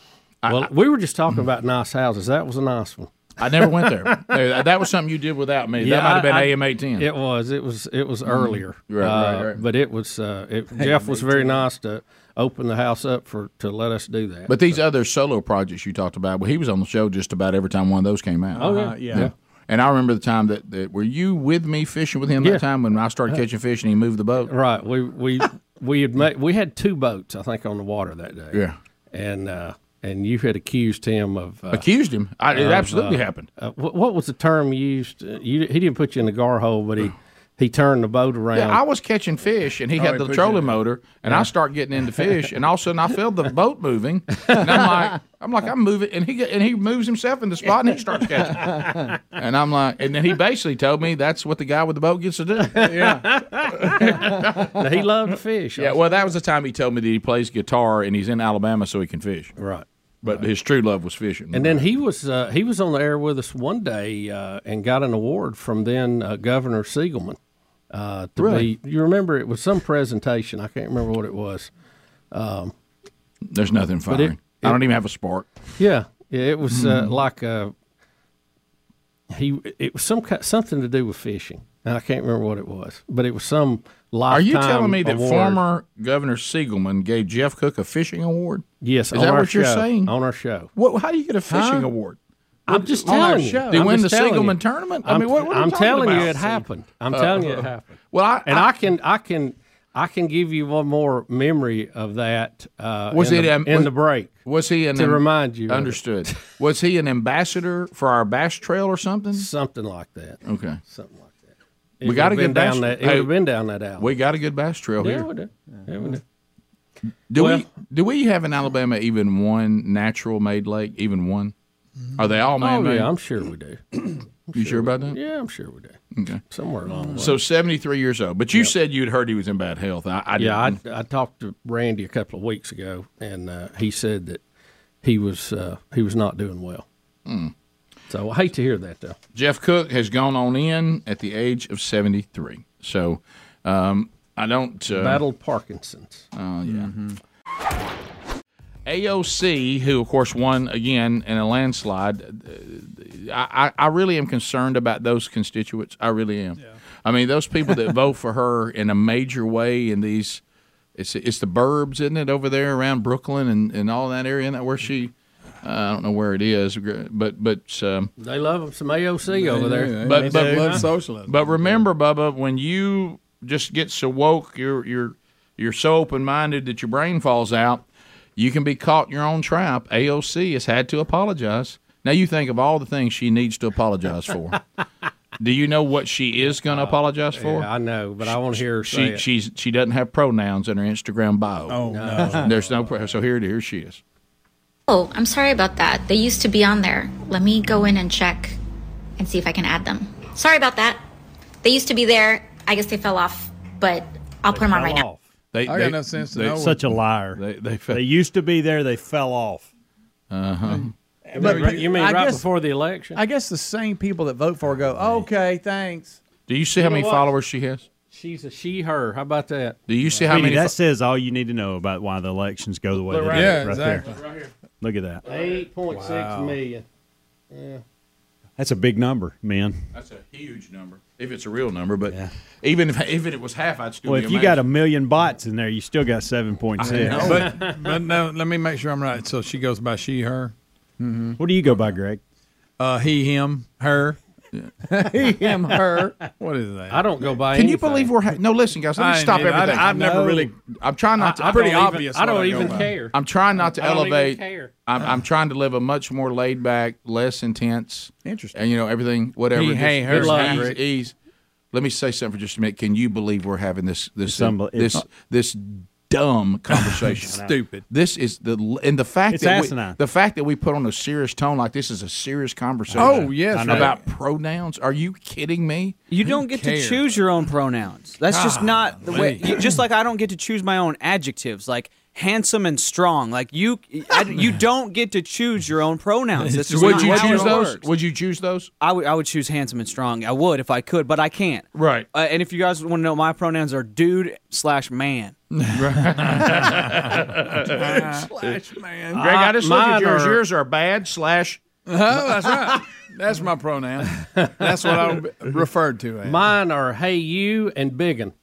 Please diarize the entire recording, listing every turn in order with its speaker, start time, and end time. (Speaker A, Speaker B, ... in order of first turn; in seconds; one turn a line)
Speaker A: 0.4-0.7
Speaker B: 0.5-4.2
Speaker A: 3.4-7.1
Speaker B: 5.8-14.8
Speaker A: 8.2-9.6
Speaker C: 10.8-11.6
Speaker A: 14.5-24.5
Speaker C: 18.6-19.3
Speaker B: 18.6-19.3
Speaker B: 24.5-28.6
Speaker B: 29.1-31.8
Speaker A: 31.7-33.5
Speaker B: 32.5-38.8
Speaker A: 38.5-53.2
Speaker D: 40.0-40.7
Speaker B: 44.5-44.9
Speaker B: 52.7-56.0
Speaker A: 53.7-54.8
Speaker A: 55.8-59.5
Speaker B: 59.6-59.8
Speaker A: 60.2-61.8
Speaker B: 61.5-67.4
Speaker B: 67.9-71.7
Speaker A: 68.4-68.7
Speaker B: 72.3-72.7
Speaker A: 73.5-75.5
Speaker B: 74.1-74.8
Speaker B: 75.8-77.7
Speaker A: 76.7-77.2
Speaker B: 79.3-85.6
Speaker A: 84.3-90.1
Speaker B: 88.8-90.7
Speaker A: 90.7-92.2
Speaker C: 91.5-91.9
Speaker B: 92.7-97.9
Speaker A: 92.7-96.6
Speaker C: 93.0-93.9
Speaker A: 97.1-98.7
Speaker B: 98.5-104.3
Speaker A: 103.1-103.9
Speaker A: 104.4-109.5
Speaker B: 104.9-106.4
Speaker B: 109.3-111.4
Speaker A: 110.4-110.8
Speaker B: 112.0-114.1
Speaker A: 112.0-113.3
Speaker A: 114.0-115.3
Speaker B: 115.0-116.2
Speaker A: 117.3-121.5
Speaker B: 117.3-117.7
Speaker A: 122.2-123.1
Speaker B: 122.6-126.0
Speaker A: 124.5-125.2
Speaker A: 126.1-126.4
Speaker B: 126.5-127.4
Speaker A: 127.1-130.8
Speaker B: 130.4-134.4
Speaker B: 135.0-136.8
Speaker A: 137.2-137.5
Speaker B: 138.1-139.2
Speaker A: 139.3-145.2
Speaker B: 144.9-146.2
Speaker A: 146.3-146.9
Speaker C: 146.7-147.2
Speaker A: 148.8-160.4
Speaker A: 160.9-168.1
Speaker B: 168.2-170.8
Speaker D: 169.3-171.8
Speaker A: 170.0-177.8
Speaker A: 178.3-184.6
Speaker A: 185.4-187.7
Speaker B: 186.6-189.2
Speaker A: 188.2-194.0
Speaker C: 191.7-192.4
Speaker B: 191.8-192.6
Speaker E: 194.9-198.6
Speaker E: 199.2-201.0
Speaker E: 201.6-205.1
Speaker B: 204.5-205.2
Speaker A: 205.5-208.0
Speaker D: 205.7-206.8
Speaker F: 206.5-209.7
Speaker A: 210.3-210.9
Speaker B: 211.3-213.2
Speaker C: 211.4-212.4
Speaker D: 211.4-211.9
Speaker C: 213.1-216.2
Speaker A: 216.5-217.8
Speaker B: 216.8-217.3
Speaker B: 218.1-220.3
Speaker A: 219.9-220.8
Speaker F: 220.3-224.0
Speaker D: 223.2-224.0
Speaker F: 224.8-225.2
Speaker B: 225.2-226.8
Speaker C: 226.2-226.5
Speaker B: 227.5-227.8
Speaker F: 228.6-229.8
Speaker A: 229.9-234.6
Speaker F: 234.1-237.5
Speaker A: 236.8-237.5
Speaker D: 236.9-240.5
Speaker B: 237.2-237.9
Speaker F: 241.4-242.2
Speaker D: 242.8-244.2
Speaker D: 245.1-245.8
Speaker C: 245.1-246.1
Speaker D: 246.4-247.3
Speaker B: 246.9-248.1
Speaker A: 247.5-261.1
Speaker D: 248.9-250.5
Speaker F: 249.9-250.5
Speaker C: 250.0-250.4
Speaker B: 251.2-254.7
Speaker D: 251.4-252.9
Speaker C: 258.2-258.6
Speaker D: 259.5-260.7
Speaker B: 260.1-260.8
Speaker A: 261.7-275.9
Speaker F: 264.2-265.0
Speaker D: 266.9-267.8
Speaker F: 267.3-267.5
Speaker F: 269.3-270.0
Speaker F: 272.9-274.0
Speaker D: 273.0-273.9
Speaker G: 276.1-287.9
Speaker D: 276.2-277.2
Speaker D: 278.3-279.7
Speaker D: 286.4-287.7
Speaker A: 286.7-288.7
Speaker G: 288.8-295.3
Speaker A: 291.7-292.1
Speaker D: 295.5-299.3
Speaker A: 295.7-301.6
Speaker B: 299.1-300.4
Speaker D: 301.9-306.5
Speaker B: 304.4-304.9
Speaker B: 306.2-308.3